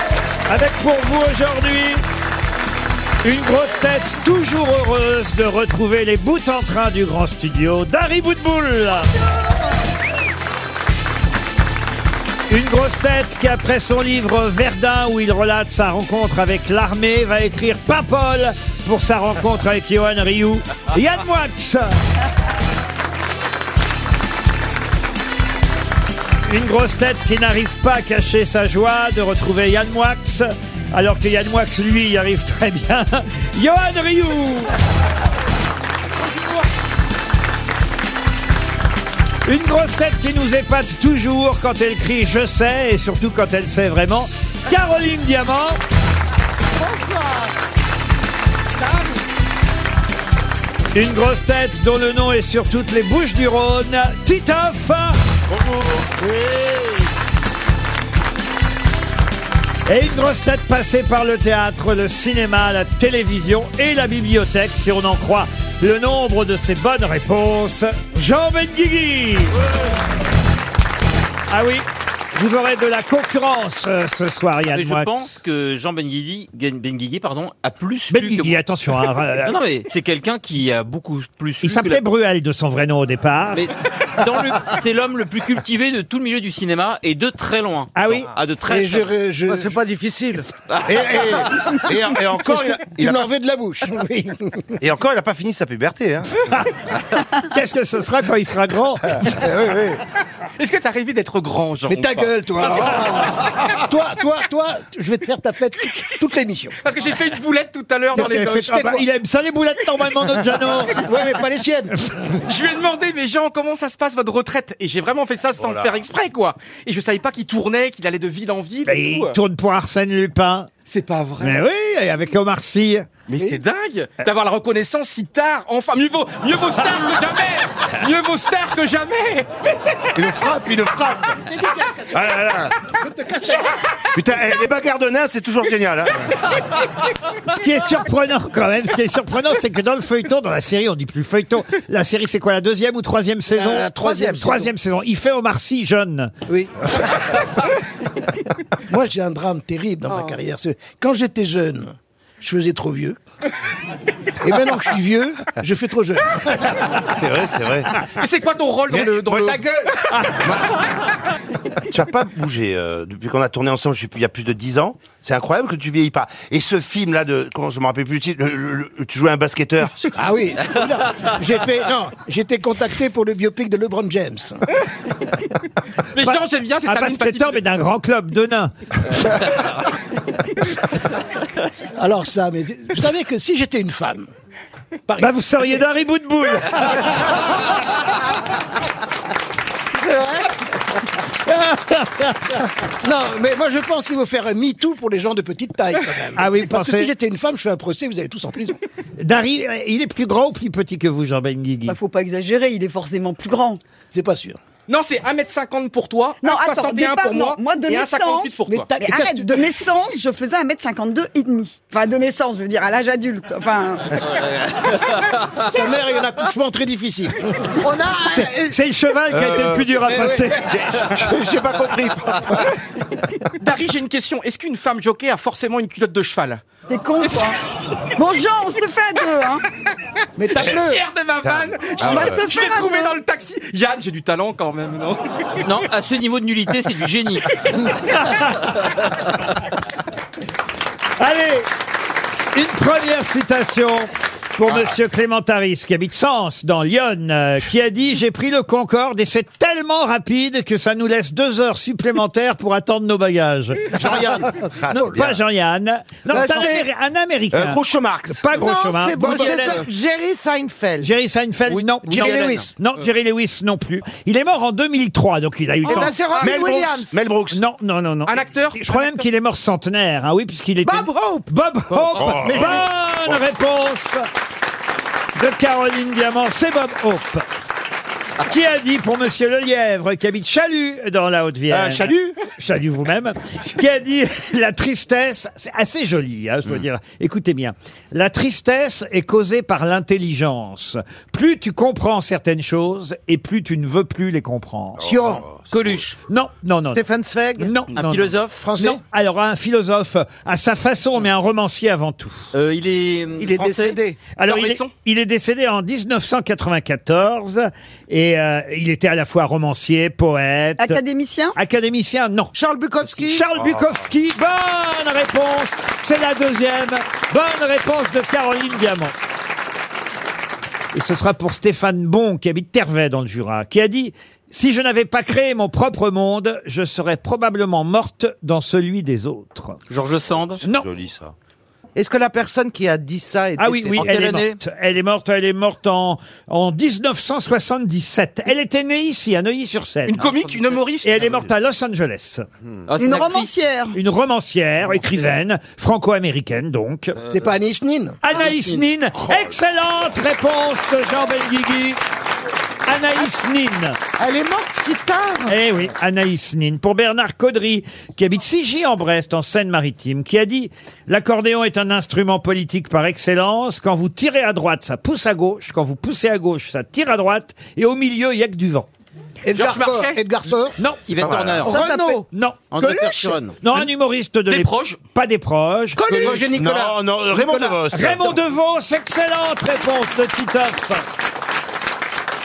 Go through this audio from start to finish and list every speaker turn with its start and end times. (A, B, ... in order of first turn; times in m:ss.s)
0:00.5-0:02.0 A
0:03.2-0:09.1 A
0:12.5-0:21.9 A
0:26.4-0:34.7 A
0:39.4-0:45.8 A
0:46.8-0:47.5 B
0:48.8-0:49.2 B
0:50.9-0:55.2 A
0:55.5-0:56.0 C
0:56.3-0:56.8 D
0:59.8-1:09.7 A
1:11.5-1:15.4 A
1:14.7-1:18.6 E
1:18.1-1:19.5 A
1:19.4-1:22.0 E
1:21.6-1:23.7 A
1:23.5-1:29.1 E
1:27.9-1:28.3 A
1:28.7-1:29.8 D
1:29.5-1:30.4 B
1:30.8-1:33.3 C
1:32.4-1:34.7 D
1:34.8-1:36.4 C
1:37.4-1:39.4 A
1:39.2-1:40.0 C
1:40.6-1:42.4 F
1:41.9-1:46.8 D
1:46.8-1:48.8 F
1:48.1-1:49.0 D
1:48.1-1:51.0 A
1:51.0-1:51.9 D
1:52.4-1:59.4 F
1:55.6-1:56.0 C
1:58.8-2:00.7 A
2:00.8-2:01.6 F
2:01.4-2:03.1 A
2:03.3-2:09.7 F
2:10.1-2:11.4 C
2:11.4-2:13.7 D
2:12.1-2:12.7 C
2:14.1-2:16.3 C
2:17.5-2:26.3 A
2:23.6-2:24.6 B
2:23.6-2:24.5 D
2:28.9-2:33.2 D
2:34.4-2:36.7 D
2:37.1-2:38.0 C
2:38.2-2:39.6 F
2:38.9-2:39.6 C
2:39.3-2:39.9 D
2:40.3-2:40.6 C
2:41.9-2:50.1 C
2:50.1-2:54.6 D
2:56.1-2:57.6 F
2:56.2-2:58.7 A
3:02.0-3:04.3 D
3:05.2-3:07.4 A
3:10.0-3:10.5 B
3:11.4-3:12.6 A
3:13.0-3:18.8 D
3:16.4-3:17.1 A
3:19.2-3:22.0 A
3:21.8-3:23.8 G
3:24.1-3:24.6 D
3:24.9-3:28.9 F
3:26.4-3:34.2 G
3:28.7-3:29.7 D
3:35.6-3:37.8 D
3:37.8-3:38.7 B
3:38.3-3:40.8 A
3:39.3-3:40.0 C
3:40.1-3:40.7 D
3:40.7-3:42.7 C
3:43.6-3:46.6 F
3:46.9-3:47.6 G
3:47.2-3:47.5 F
3:48.2-3:49.6 G
3:50.4-3:51.0 D
3:50.5-3:55.2 F
3:51.4-3:52.4 C
3:52.0-3:53.2 G
3:55.6-3:57.6 E
3:58.1-3:58.8 A
4:01.2-4:01.7 A
4:02.5-4:14.2 A
4:14.0-4:14.5 E
4:14.8-4:15.4 C
4:14.9-4:19.8 A
4:16.3-4:16.8 B
4:17.5-4:18.4 C
4:18.5-4:21.1 B
4:19.3-4:19.8 E
4:21.0-4:26.3 A
4:22.0-4:22.7 E
4:22.2-4:22.6 D
4:25.8-4:27.2 B
4:26.4-4:26.7 F
4:26.4-4:27.6 C
4:27.5-4:34.3 A
4:28.2-4:29.2 F
4:30.8-4:31.5 B
4:32.2-4:33.4 C
4:32.3-4:32.8 D
4:35.3-4:37.4 A
4:38.4-4:55.1 A
4:41.7-4:42.4 C
4:55.0-4:56.0 C
4:55.0-4:55.5 D
4:55.7-4:56.0 E
4:56.3-4:57.0 A
4:56.9-4:57.7 B
4:57.6-5:02.5 A
4:57.9-4:58.7 E
4:58.6-4:59.0 D
5:02.5-5:04.0 E
5:03.4-5:04.2 B
5:04.4-5:11.0 A
5:04.4-5:04.9 F
5:10.8-5:11.6 G
5:11.5-5:12.5 A
5:12.5-5:13.4 B
5:13.2-5:19.1 A
5:13.6-5:13.8 C
5:20.9-5:29.8 A
5:29.9-5:30.6 E
5:30.6-5:30.9 A
5:30.6-5:31.3 C
5:32.0-5:34.1 B
5:33.6-5:40.2 A
5:33.9-5:34.6 E
5:40.0-5:41.4 F
5:41.0-5:42.4 A
5:42.9-5:43.5 E
5:43.0-5:44.0 G
5:43.9-5:47.2 A
5:47.2-5:48.2 D
5:48.2-5:52.0 A
5:48.4-5:48.7 E
5:52.9-5:54.0 A
5:54.2-5:55.5 B
5:55.5-6:08.9 A
6:09.4-6:10.8 D
6:09.5-6:10.2 F
6:10.8-6:16.3 A
6:11.0-6:11.8 E
6:11.2-6:11.7 C
6:11.6-6:12.3 B
6:12.7-6:13.6 E
6:14.5-6:15.0 F
6:16.0-6:16.5 B
6:16.0-6:17.8 D
6:16.3-6:18.3 C
6:17.9-6:21.0 A